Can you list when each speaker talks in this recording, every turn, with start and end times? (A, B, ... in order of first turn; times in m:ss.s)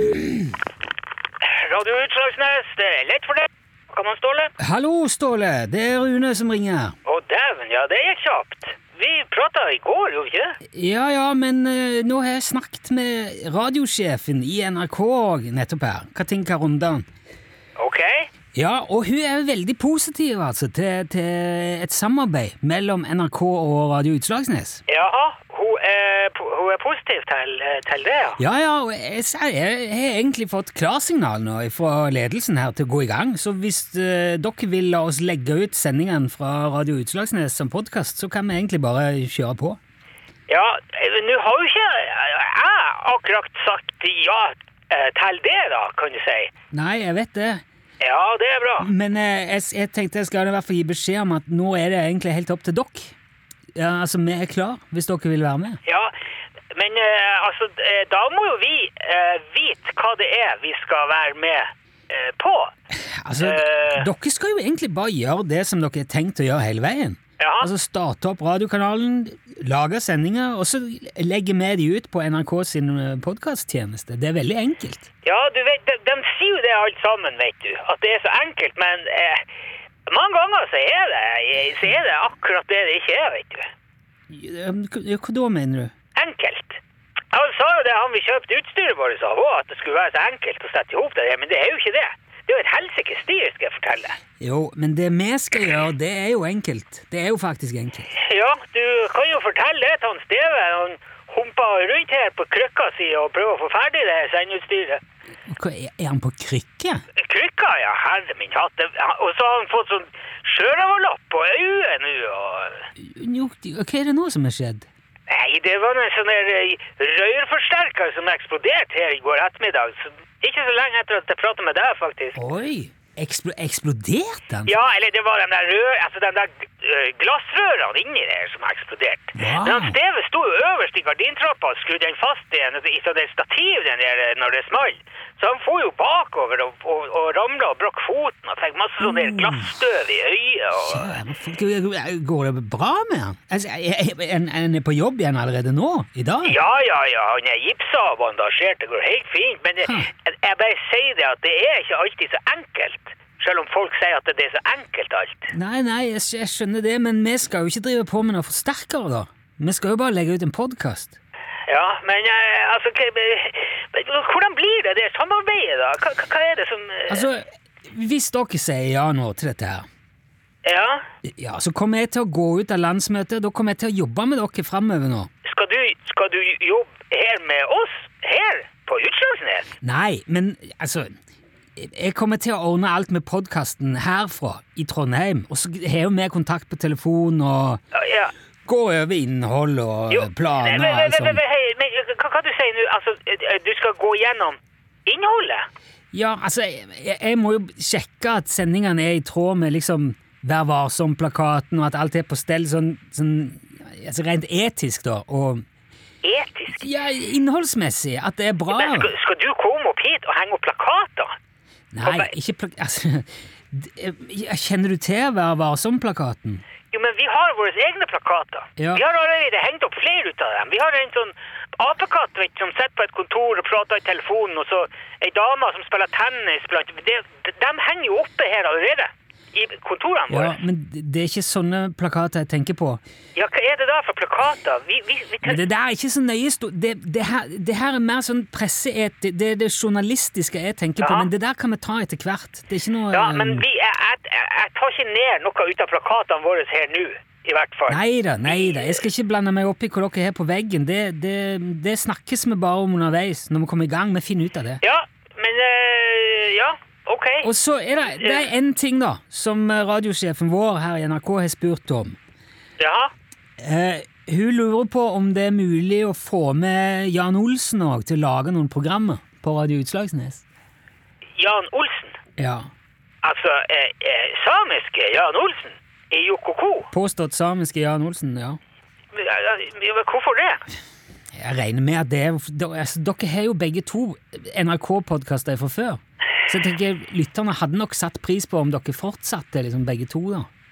0:01.4-0:04.5 A
0:04.6-0:06.9 B
0:07.0-0:10.6 A
0:10.7-0:17.0 B
0:17.8-0:18.3 A
0:18.5-0:24.8 B
0:24.9-0:28.4 A
0:28.4-0:39.8 B
0:40.5-0:46.5 A
0:46.7-0:47.6 B
0:48.0-0:48.9 A
0:48.8-0:53.1 B
0:53.7-0:55.8 B
0:55.8-0:56.1 A
0:56.7-1:02.7 A
1:03.0-1:15.1 B
1:03.4-1:04.1 A
1:07.4-1:07.7 A
1:15.2-1:19.4 A
1:20.1-1:23.7 A
1:24.3-1:25.9 B
1:26.2-1:26.8 A
1:27.3-1:34.2 A
1:34.4-1:38.1 B
1:38.2-1:45.0 A
1:45.5-1:47.0 B
1:47.2-1:52.8 A
1:53.0-1:54.9 B
1:55.3-2:02.4 A
2:02.3-2:04.8 B
2:04.7-2:21.2 A
2:09.3-2:10.0 B
2:19.0-2:19.7 B
2:20.7-2:26.6 B
2:26.4-2:35.5 A
2:29.8-2:30.1 B
2:35.5-2:41.2 B
2:41.7-2:47.3 A
2:47.1-2:49.8 B
2:50.6-2:51.0 A
2:51.2-2:55.3 B
2:55.4-2:59.7 A
2:59.8-3:01.1 B
3:01.8-3:07.8 B
3:07.9-3:08.3 A
3:08.6-3:11.4 B
3:10.1-3:15.6 A
3:16.1-3:25.6 B
3:26.2-3:26.8 A
3:26.8-3:29.1 B
3:28.7-3:31.3 A
3:31.9-3:36.6 B
3:32.0-3:32.3 A
3:36.9-3:50.6 A
3:38.8-3:39.0 B
3:50.3-3:53.0 B
3:53.4-3:55.6 A
3:55.4-4:03.6 B
4:01.0-4:01.3 A
4:03.1-4:09.0 A
4:07.9-4:14.8 B
4:14.8-4:17.5 A
4:17.4-4:22.2 B
4:18.2-4:18.5 A
4:22.8-4:23.1 A
4:23.6-4:30.4 B
4:31.4-4:32.2 A
4:32.4-4:32.7 B
4:33.2-4:36.9 A
4:36.9-4:38.6 B
4:39.1-4:40.6 A
4:41.3-4:50.5 B